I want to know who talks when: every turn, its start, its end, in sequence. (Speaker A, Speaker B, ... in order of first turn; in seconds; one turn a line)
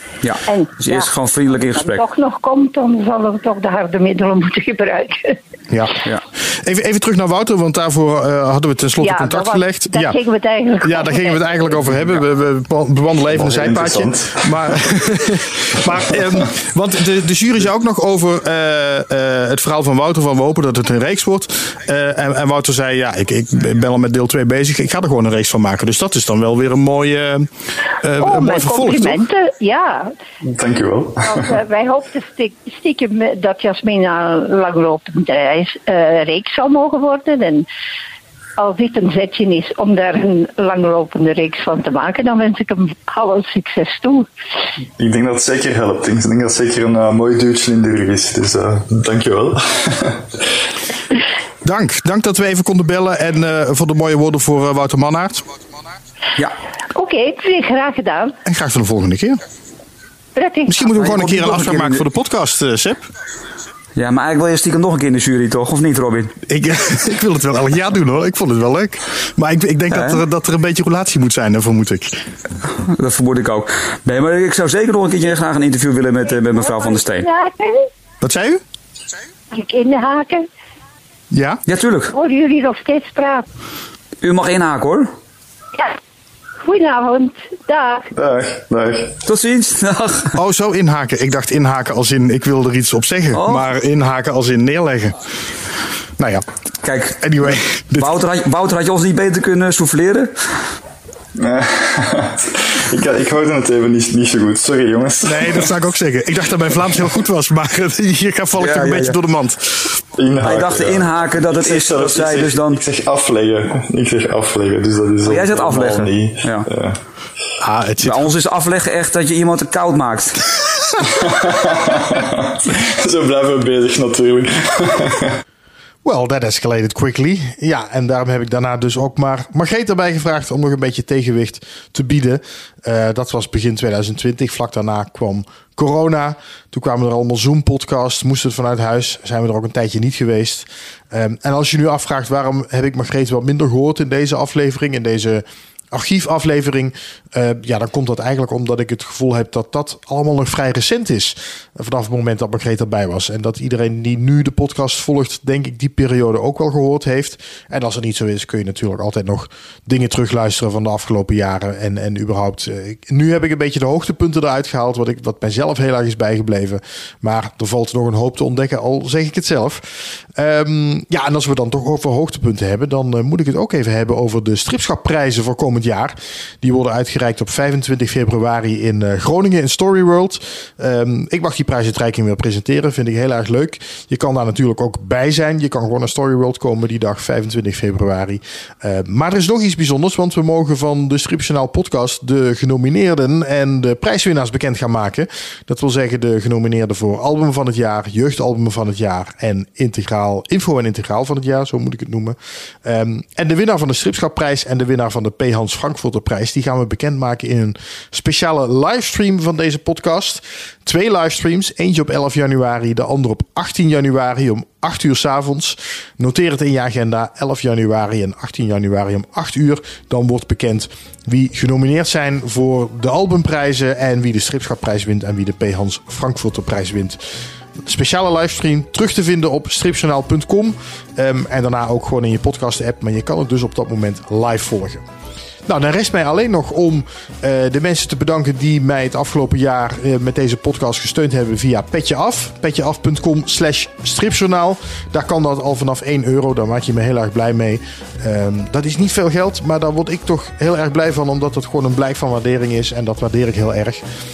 Speaker A: 0.2-2.0
Speaker B: 0.5-5.4
Speaker C: 5.7-5.9
Speaker C: 6.6-10.1
Speaker B: 9.0-11.6
Speaker C: 10.8-27.5
Speaker D: 13.3-14.4
Speaker C: 28.0-29.2
Speaker B: 28.2-30.1
Speaker D: 30.4-31.5
Speaker B: 31.2-37.6
Speaker B: 38.6-44.3
Speaker D: 45.0-50.2
Speaker C: 51.6-55.4
Speaker B: 56.9-58.4
Speaker C: 58.5-59.4
Speaker B: 60.4-61.1
Speaker C: 60.7-63.0
Speaker A: 60.9-62.0
Speaker A: 64.0-66.3
Speaker C: 66.5-72.1
Speaker A: 69.9-70.2
Speaker A: 72.8-77.2
Speaker B: 76.6-77.9
Speaker C: 78.2-78.6
Speaker B: 79.5-80.5
Speaker C: 81.3-81.6
Speaker A: 81.7-82.1
Speaker B: 82.1-83.4
Speaker A: 84.2-85.1
Speaker B: 86.6-88.1
Speaker D: 88.1-89.1
Speaker A: 89.2-90.3
Speaker C: 90.3-95.2
Speaker A: 93.3-93.7
Speaker C: 96.2-96.4
Speaker A: 96.8-97.2
Speaker C: 97.2-98.2
Speaker A: 98.0-100.3
Speaker D: 101.3-105.7
Speaker C: 105.2-110.0
Speaker A: 108.5-109.2
Speaker D: 110.2-117.0
Speaker A: 110.4-112.8
Speaker A: 115.2-116.7
Speaker C: 117.6-118.3
Speaker A: 118.0-120.4
Speaker D: 121.4-125.3
Speaker C: 126.0-227.2
Speaker C: 227.8-235.0
Speaker C: 235.7-254.0